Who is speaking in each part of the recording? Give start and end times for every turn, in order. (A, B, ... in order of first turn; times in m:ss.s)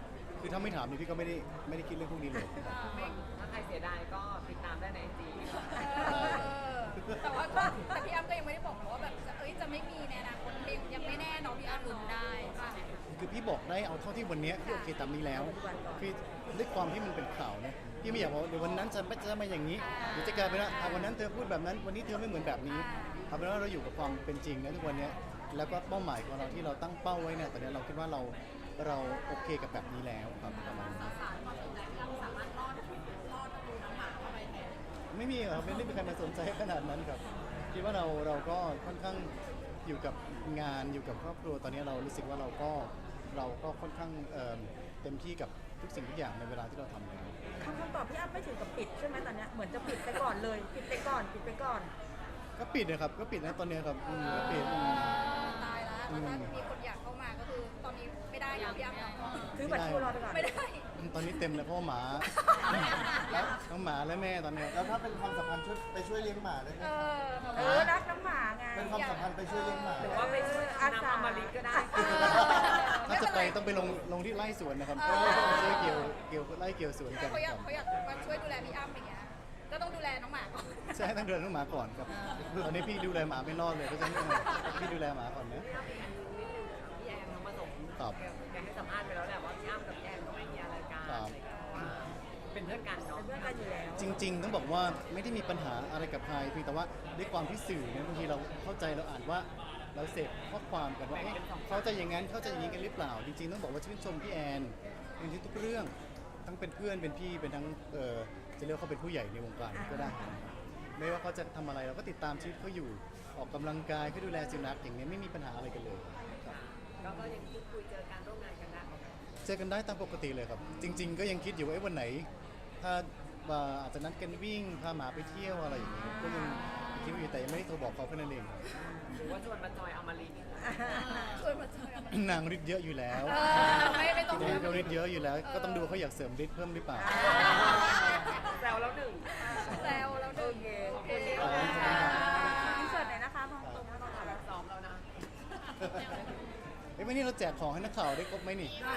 0:00.4-0:02.8 A
0:02.6-0:03.2 B
0:02.8-0:06.2 C
0:05.6-0:12.9 B
0:06.0-0:07.2 A
0:07.6-0:07.9 D
0:13.1-0:31.2 A
0:14.6-0:14.9 B
0:15.3-0:16.2 D
0:19.8-0:21.1 B
0:22.7-0:23.3 B
0:30.5-0:33.0 B
0:33.8-0:34.2 B
0:35.1-0:39.3 A
0:39.8-0:47.4 A
0:47.6-0:51.9 D
0:52.6-0:55.3 A
0:54.2-0:59.5 B
0:56.1-0:56.5 A
0:59.5-1:00.5 D
0:59.6-1:00.2 A
1:00.3-1:01.5 B
1:01.0-1:05.0 A
1:02.3-1:03.5 B
1:03.3-1:03.6 E
1:04.7-1:07.1 E
1:06.8-1:07.9 B
1:07.5-1:07.9 A
1:07.5-1:09.0 D
1:08.7-1:10.4 E
1:08.9-1:10.7 B
1:10.0-1:12.8 D
1:10.0-1:12.6 C
1:11.9-1:13.7 B
1:12.1-1:12.7 E
1:13.0-1:17.7 A
1:14.9-1:16.1 B
1:17.1-1:21.1 B
1:20.9-1:25.7 A
1:22.2-1:22.5 B
1:22.4-1:22.7 E
1:25.5-1:33.7 C
1:31.0-1:31.9 A
1:33.1-1:34.2 D
1:34.0-1:45.9 A
1:41.1-1:42.1 C
1:46.4-1:57.1 A
1:49.7-1:50.4 D
1:56.5-1:59.2 C
1:59.4-2:02.3 A
2:02.8-2:08.8 A
2:06.3-2:06.9 B
2:08.8-2:09.3 D
2:09.1-2:10.9 C
2:10.6-2:11.4 D
2:10.9-2:12.2 B
2:12.1-2:17.3 A
2:13.2-2:14.9 B
2:13.7-2:14.0 C
2:15.5-2:15.9 B
2:17.0-2:17.8 D
2:17.1-2:19.3 C
2:17.2-2:18.5 B
2:17.7-2:18.2 E
2:19.4-2:24.4 D
2:19.5-2:23.1 B
2:19.5-2:20.2 A
2:20.9-2:22.6 C
2:21.4-2:22.6 A
2:23.8-2:26.3 C
2:27.0-2:28.8 A